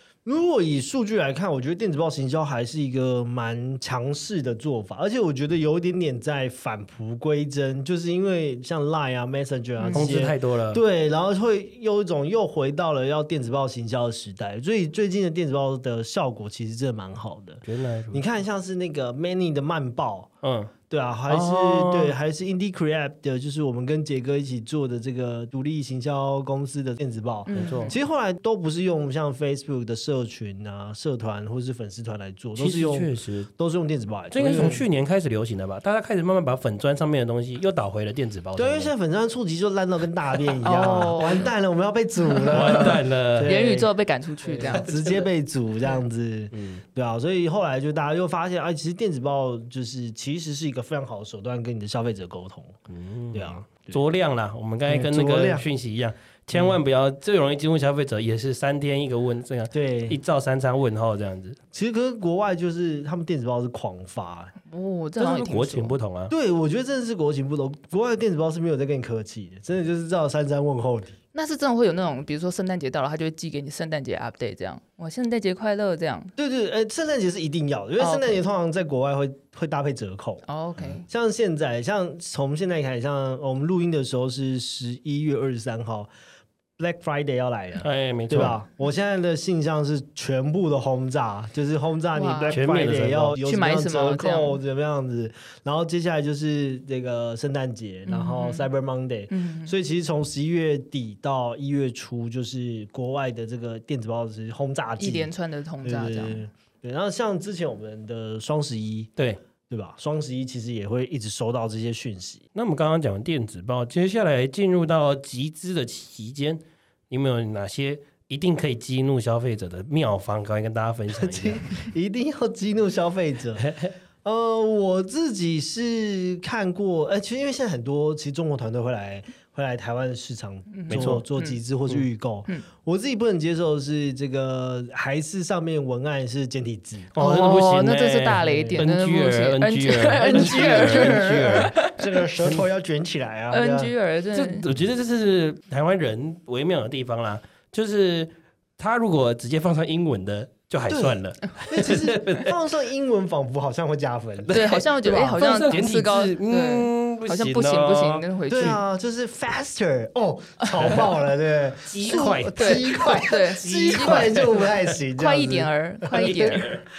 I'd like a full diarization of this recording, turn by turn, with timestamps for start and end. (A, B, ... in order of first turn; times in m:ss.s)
0:00.2-0:20.3 A
0:09.8-0:10.1 B
0:09.9-0:10.8 C
0:17.6-0:18.2 C
0:20.4-0:20.7 C
0:20.9-0:34.8 A
0:21.3-0:22.1 C
0:27.5-0:28.0 B
0:27.5-0:27.9 C
0:32.6-0:33.5 C
0:34.3-0:38.9 C
0:38.6-0:43.9 A
0:40.6-0:41.5 B
0:42.2-0:44.9 B
0:42.5-0:43.5 C
0:44.4-0:52.8 A
0:44.6-0:45.3 C
0:46.5-0:46.8 C
0:52.9-1:01.6 C
0:53.3-0:54.0 A
0:54.9-0:55.6 A
0:59.7-1:00.2 A
1:01.7-1:04.5 A
1:04.7-1:06.0 B
1:05.2-1:06.3 C
1:06.3-1:11.2 A
1:11.3-1:16.3 B
1:16.4-1:20.4 A
1:18.0-1:18.4 B
1:20.4-1:21.0 B
1:21.0-1:26.1 A
1:26.8-1:45.3 A
1:27.8-1:28.6 C
1:32.1-1:32.6 B
1:32.5-1:33.4 C
1:33.4-1:34.6 B
1:38.0-1:38.7 B
1:39.3-1:39.7 B
1:45.0-1:46.4 B
1:45.8-1:49.1 A
1:49.7-1:52.4 A
1:52.5-2:01.6 C
2:01.1-2:03.7 A
2:03.6-2:03.9 C
2:04.2-2:17.1 A
2:10.7-2:11.6 B
2:10.9-2:11.2 C
2:17.1-2:21.8 C
2:17.2-2:22.2 B
2:18.4-2:18.8 A
2:20.2-2:23.9 A
2:23.5-2:24.6 B
2:24.3-2:32.6 C
2:30.9-2:35.4 A
2:34.4-2:38.2 C
2:34.5-2:38.8 B
2:38.5-2:46.7 A
2:40.8-2:41.0 C
2:41.9-2:44.9 C
2:42.1-2:46.6 B
2:46.1-2:46.8 C